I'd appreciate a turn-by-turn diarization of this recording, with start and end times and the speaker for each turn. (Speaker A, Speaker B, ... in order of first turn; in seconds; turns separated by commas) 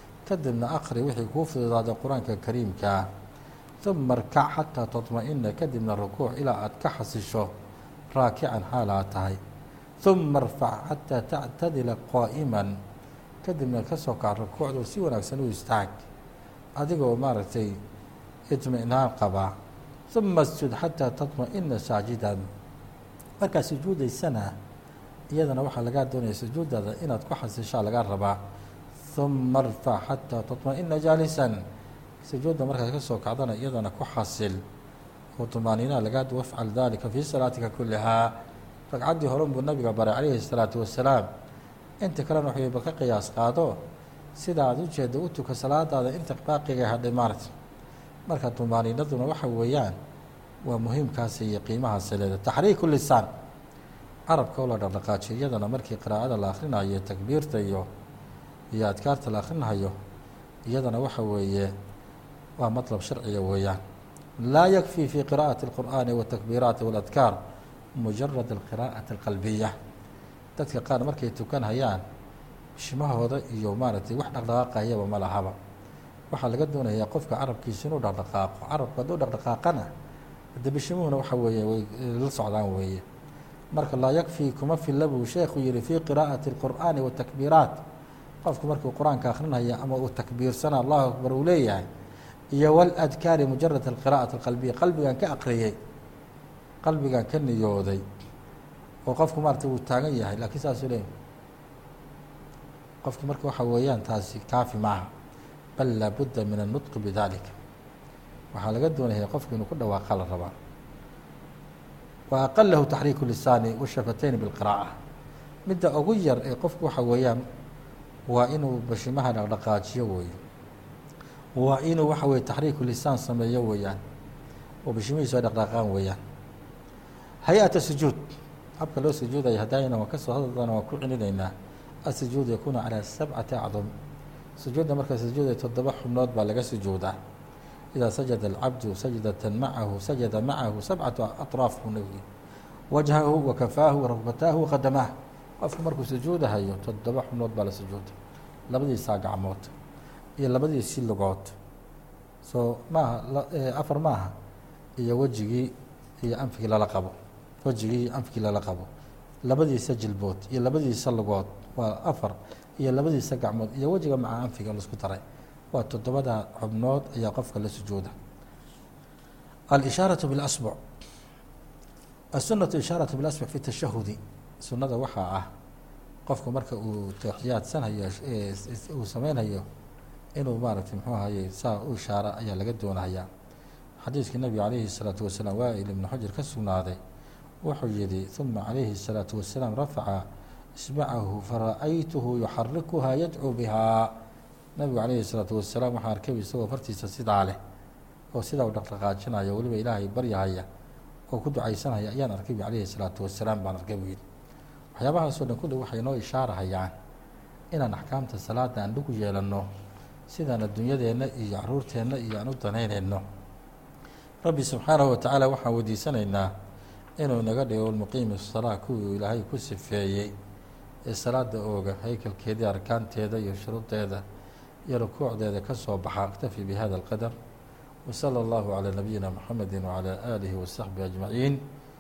Speaker A: 0.3-3.1, Speaker A: 3.8-7.5, Speaker A: 8.1-9.4, Speaker A: 10.0-12.8, Speaker A: 13.4-16.0, Speaker A: 16.8-17.8, Speaker A: 18.5-19.5, Speaker A: 20.1-22.5, Speaker A: 23.4-24.6, Speaker A: 25.3-28.4, Speaker A: 29.1-31.6, Speaker A: 32.2-34.6, Speaker A: 35.4-38.4, Speaker A: 38.9-41.3, Speaker A: 42.0-43.8, Speaker A: 44.4-47.5, Speaker A: 48.3-50.0, Speaker A: 50.6-53.3, Speaker A: 54.3-57.9, Speaker A: 58.7-60.0, Speaker A: 60.7-61.7, Speaker A: 62.6-63.8, Speaker A: 64.4-67.4, Speaker A: 68.0-69.7, Speaker A: 70.6-72.0, Speaker A: 72.8-75.6, Speaker A: 76.3-79.9, Speaker A: 80.6-83.0, Speaker A: 83.7-87.8, Speaker A: 88.4-91.9, Speaker A: 92.5-95.8, Speaker A: 96.8-98.0, Speaker A: 99.1-101.1, Speaker A: 103.0-105.1, Speaker A: 105.8-107.5, Speaker A: 108.5-110.5, Speaker A: 112.3-114.9, Speaker A: 115.7-117.4, Speaker A: 118.3-120.4, Speaker A: 121.6-124.0, Speaker A: 124.8-126.2, Speaker A: 127.5-131.5, Speaker A: 132.1-133.9, Speaker A: 134.6-137.2, Speaker A: 137.9-142.3, Speaker A: 142.9-148.2, Speaker A: 148.7-149.7, Speaker A: 150.4-151.6, Speaker A: 152.4-154.3, Speaker A: 155.0-158.9, Speaker A: 159.5-165.2, Speaker A: 165.7-168.1, Speaker A: 169.7-170.8, Speaker A: 172.3-175.5, Speaker A: 176.3-179.7, Speaker A: 180.3-183.3, Speaker A: 184.0-187.0, Speaker A: 187.6-194.2, Speaker A: 194.8-197.6, Speaker A: 198.3-200.7, Speaker A: 201.3-204.2, Speaker A: 204.9-206.9, Speaker A: 207.7-209.7, Speaker A: 210.3-213.2, Speaker A: 214.4-216.5, Speaker A: 217.2-220.3, Speaker A: 221.1-224.2, Speaker A: 224.9-227.3, Speaker A: 228.1-231.6